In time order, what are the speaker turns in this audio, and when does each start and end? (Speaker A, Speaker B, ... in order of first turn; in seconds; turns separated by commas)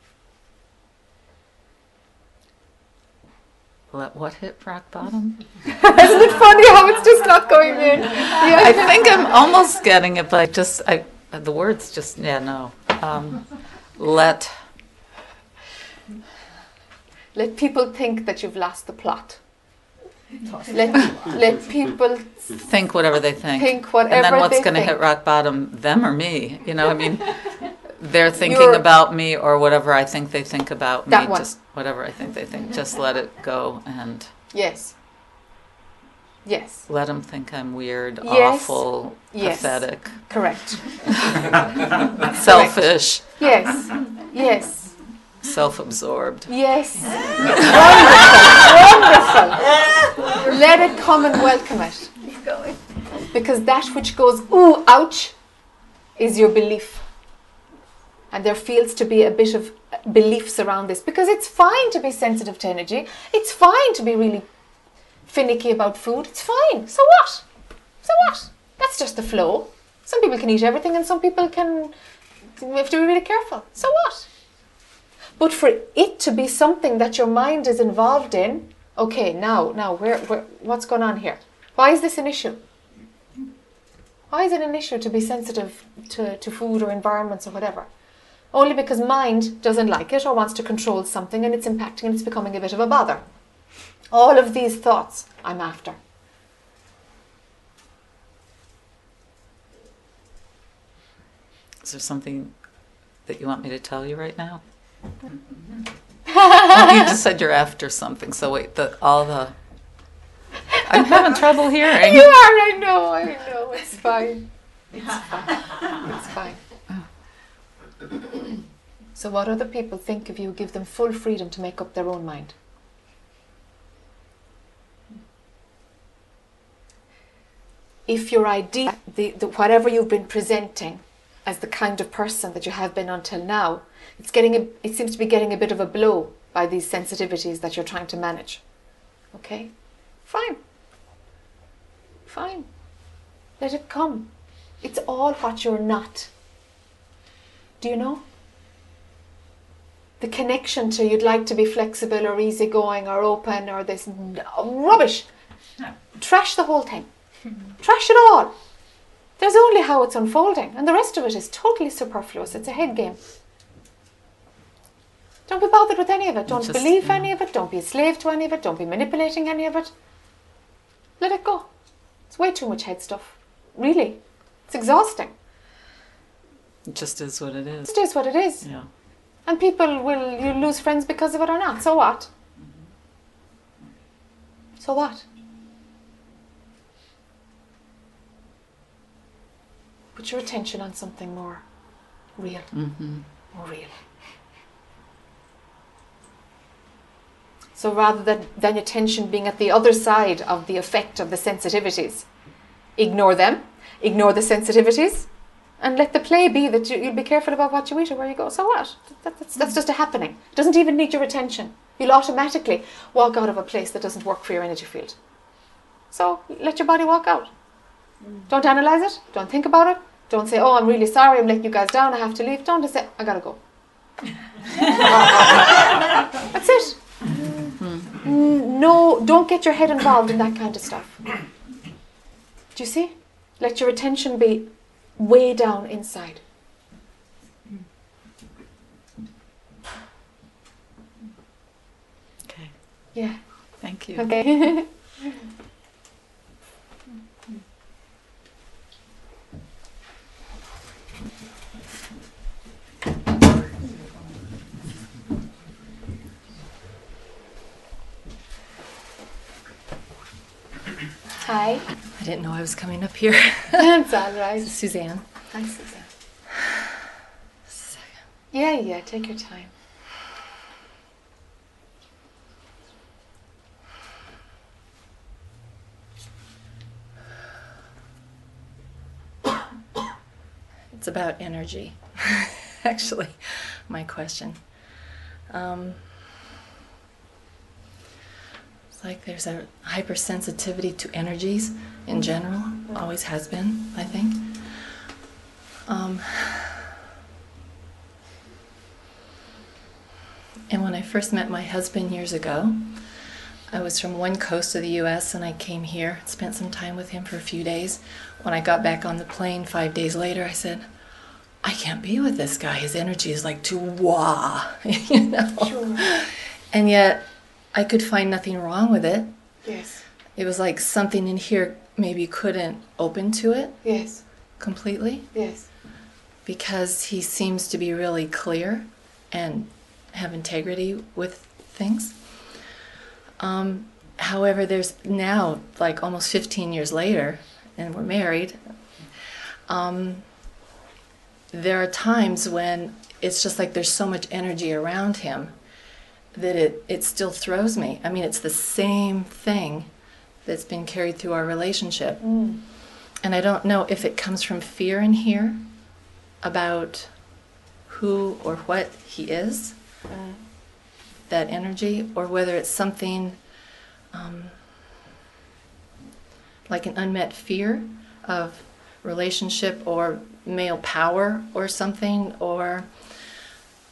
Speaker A: 3.9-5.5, Speaker B: 5.7-9.3, Speaker A: 8.3-14.5, Speaker B: 17.4-19.4, Speaker B: 20.7-22.5, Speaker A: 22.6-34.3, Speaker B: 23.6-25.0, Speaker B: 28.4-28.8, Speaker B: 31.1-31.5, Speaker B: 34.5-35.0, Speaker B: 36.4-36.9, Speaker A: 36.9-40.5, Speaker B: 38.2-41.0, Speaker A: 42.3-43.4, Speaker B: 42.4-45.0, Speaker A: 45.4-46.5, Speaker B: 46.5-49.7, Speaker B: 50.4-52.2, Speaker B: 53.3-55.4, Speaker B: 56.2-57.0, Speaker B: 58.3-64.5, Speaker B: 65.3-67.5, Speaker B: 68.0-71.9, Speaker B: 72.6-74.3, Speaker B: 75.4-82.6, Speaker B: 84.3-87.9, Speaker B: 88.5-93.2, Speaker B: 94.1-96.0, Speaker A: 101.8-102.5, Speaker A: 103.2-104.6, Speaker B: 106.3-107.1, Speaker A: 106.5-109.6, Speaker A: 110.9-112.3, Speaker B: 111.9-114.5, Speaker B: 115.1-116.7, Speaker B: 119.2-122.5, Speaker B: 128.1-138.6, Speaker B: 139.3-139.7, Speaker B: 140.2-140.6, Speaker B: 142.3-142.7, Speaker B: 143.6-146.3, Speaker B: 147.8-148.2, Speaker B: 150.2-155.3, Speaker B: 156.2-157.1, Speaker B: 157.8-158.5, Speaker B: 159.4-163.2, Speaker B: 165.5-169.9, Speaker A: 166.5-167.3, Speaker B: 171.2-171.7, Speaker B: 172.3-175.3, Speaker A: 176.9-177.9, Speaker B: 177.9-178.7, Speaker A: 178.6-178.9, Speaker B: 179.4-182.3, Speaker B: 184.8-185.2, Speaker B: 190.2-191.7, Speaker B: 192.4-192.7, Speaker A: 192.7-193.3, Speaker B: 193.4-194.1, Speaker B: 197.8-202.3, Speaker B: 203.0-205.3, Speaker B: 205.8-215.2, Speaker B: 216.1-217.5, Speaker B: 218.5-223.6, Speaker B: 225.2-225.4, Speaker B: 226.4-227.0, Speaker B: 228.2-231.2, Speaker B: 232.7-236.4, Speaker A: 242.4-242.8, Speaker B: 243.1-245.1, Speaker A: 243.8-244.3, Speaker B: 261.4-261.8, Speaker C: 262.1-263.9, Speaker B: 263.8-264.8, Speaker C: 264.6-265.3, Speaker B: 265.5-266.1, Speaker B: 268.5-269.7, Speaker C: 280.9-284.6, Speaker C: 285.5-286.3, Speaker C: 288.9-294.7, Speaker C: 295.9-296.9, Speaker C: 300.7-303.1, Speaker C: 303.7-310.9, Speaker C: 311.6-319.4, Speaker B: 315.6-316.0, Speaker B: 319.6-320.0, Speaker C: 320.4-323.8, Speaker B: 323.8-324.2, Speaker C: 324.6-325.3, Speaker B: 325.3-325.7, Speaker C: 326.4-332.6, Speaker C: 333.4-338.6, Speaker C: 339.7-340.3, Speaker C: 341.5-345.6, Speaker C: 346.3-349.9, Speaker C: 350.4-352.2, Speaker B: 352.2-352.6, Speaker C: 353.2-355.7, Speaker C: 356.4-357.1, Speaker C: 357.9-359.8, Speaker B: 360.1-360.4, Speaker C: 361.3-363.4, Speaker C: 364.1-364.9, Speaker C: 366.7-372.9